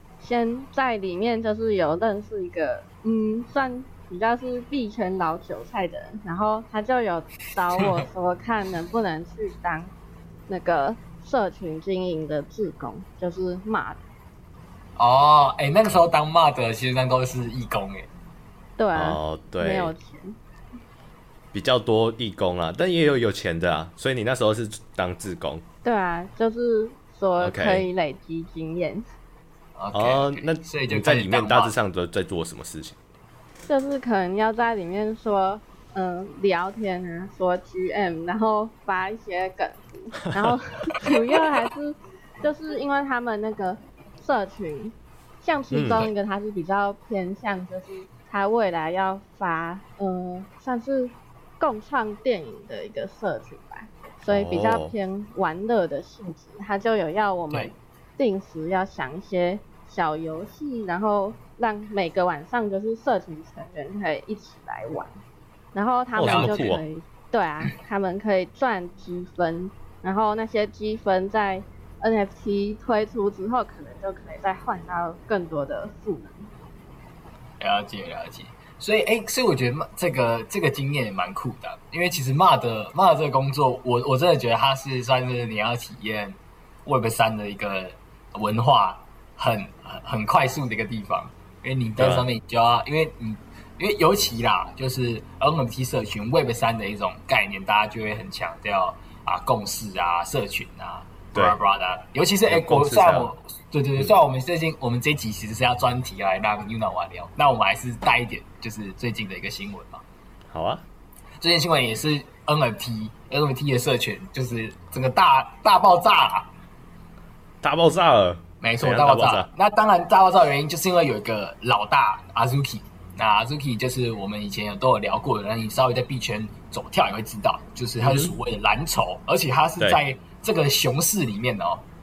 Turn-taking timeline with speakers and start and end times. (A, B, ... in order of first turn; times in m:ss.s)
0:00.2-0:09.9 A
0:07.7-0:08.0 B
0:10.5-0:14.0 A
0:15.0-0:18.1 B
0:18.8-0:20.4 A
0:19.0-0:19.9 C
0:21.5-0:25.6 C
0:25.8-0:29.1 A
0:27.4-0:27.9 C
0:29.8-0:31.8 B
0:29.9-0:33.0 C
0:33.7-1:05.1 A
0:45.7-0:46.1 C
0:54.3-0:55.0 C
1:05.7-1:16.5 A
1:06.2-1:06.8 C
1:06.2-1:06.7 B
1:17.6-1:50.0 B
1:32.0-1:32.3 C
1:42.5-1:43.3 C
1:50.5-1:50.8 C
1:51.4-1:56.5 B
1:57.6-1:59.5 C
1:58.6-2:11.8 B
2:08.0-2:08.4 C